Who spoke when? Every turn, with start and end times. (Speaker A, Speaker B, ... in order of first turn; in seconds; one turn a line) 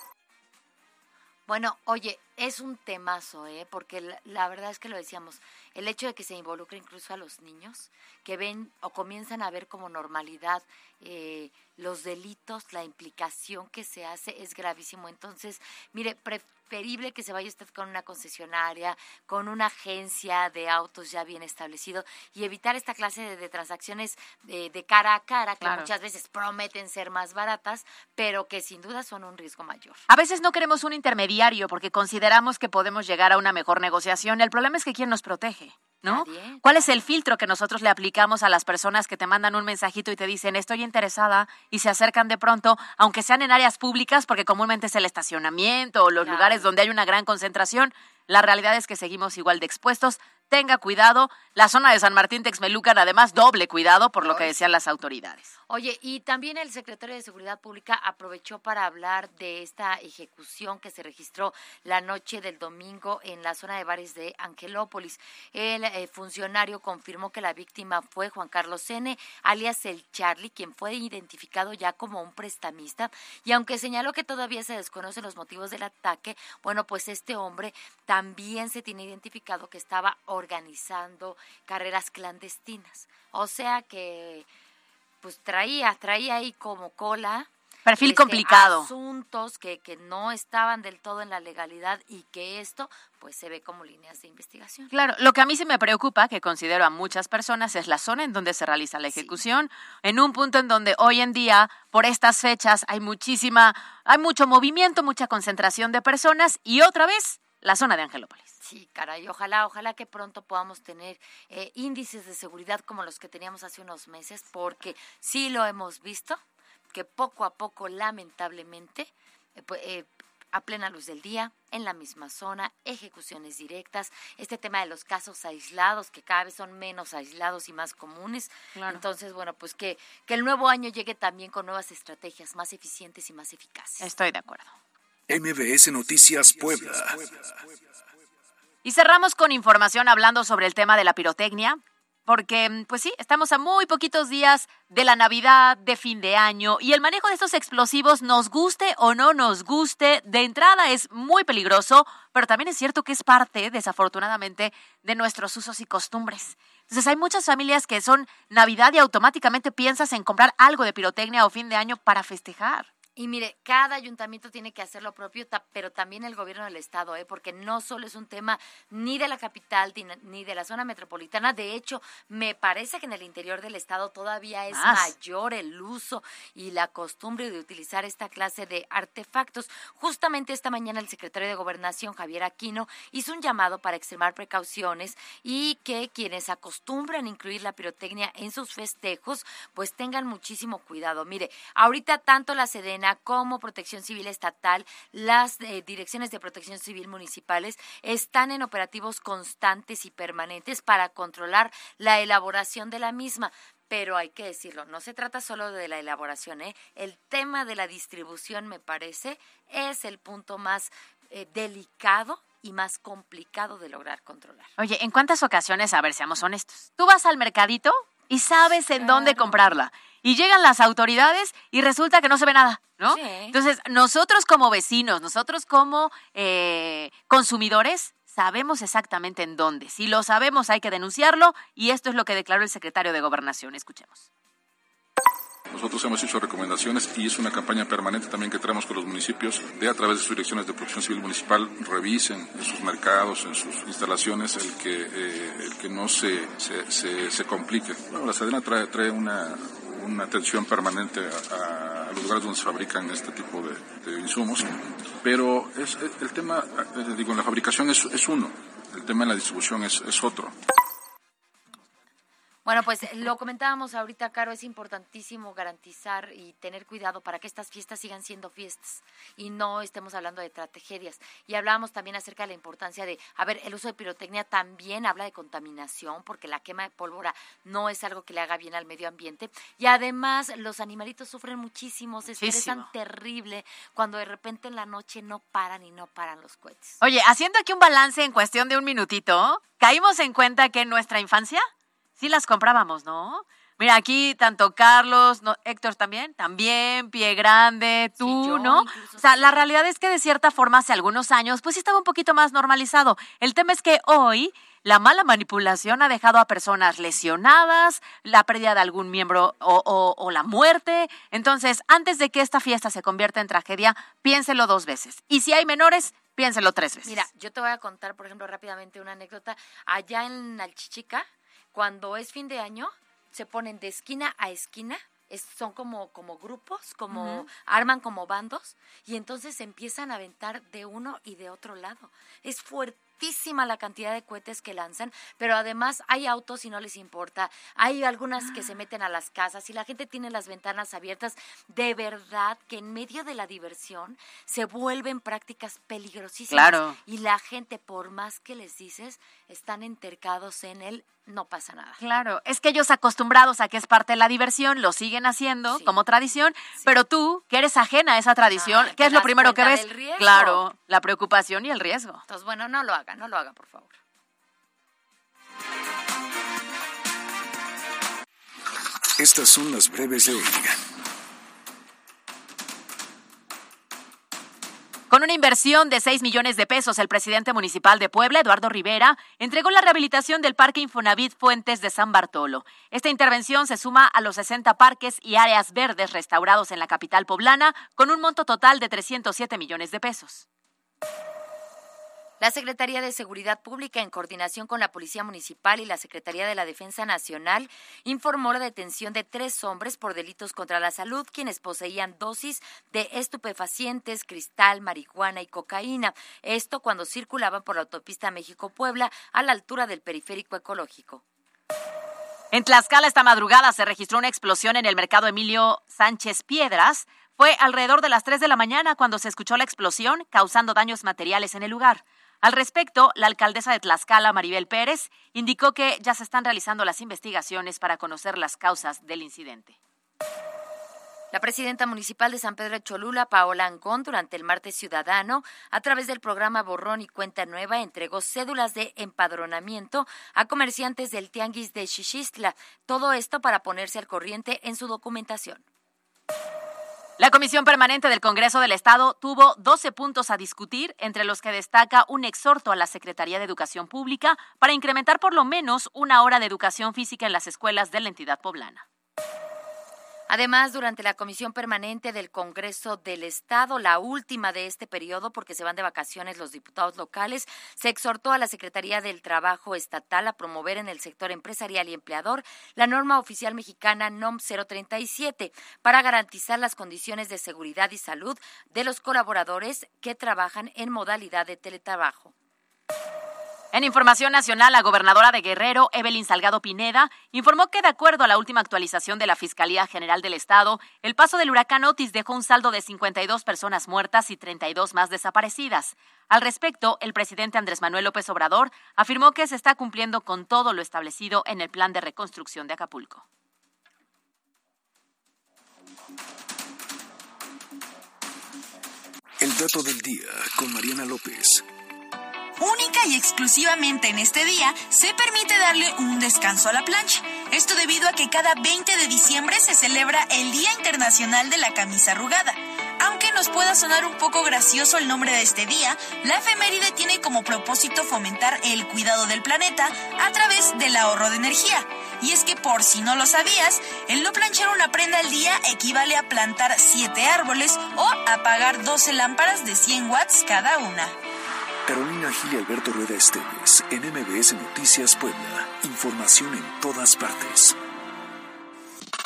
Speaker A: 1.5-30.0
Speaker B: 25.6-25.9
Speaker B: 30.1-55.5
Speaker A: 36.0-37.0
Speaker A: 46.2-46.7
Speaker A: 54.2-54.6
Speaker A: 55.7-84.5
Speaker A: 85.2-94.9
Speaker B: 87.8-88.9
Speaker B: 94.9-108.5
Speaker A: 99.1-99.4
Speaker A: 108.6-116.4
Speaker A: 116.9-134.1
Speaker B: 128.7-129.0
Speaker B: 134.0-134.7
Speaker C: 135.3-137.7
Speaker B: 138.8-162.9
Speaker A: 163.2-214.7
Speaker B: 174.7-175.1
Speaker B: 214.8-234.3
Speaker A: 218.9-219.6
Speaker A: 223.1-223.6
Speaker D: 235.7-260.5
Speaker A: 262.6-287.0
Speaker B: 282.4-282.9
Speaker B: 287.0-317.2
Speaker A: 298.2-299.7
Speaker A: 317.0-352.0
Speaker B: 327.1-327.4
Speaker B: 346.5-347.0
Speaker B: 352.0-362.2
Speaker A: 355.7-355.9
Speaker A: 358.5-360.6
Speaker A: 362.3-363.9
Speaker C: 369.2-370.8
Speaker B: 375.1-390.4
Speaker A: 392.4-411.2
Speaker B: 412.5-429.8
Speaker A: 431.3-445.6
Speaker B: 447.2-458.8
Speaker A: 460.3-482.3
Speaker B: 483.7-503.2
Speaker C: 509.4-511.6
Speaker E: 512.6-541.1
Speaker C: 541.9-547.8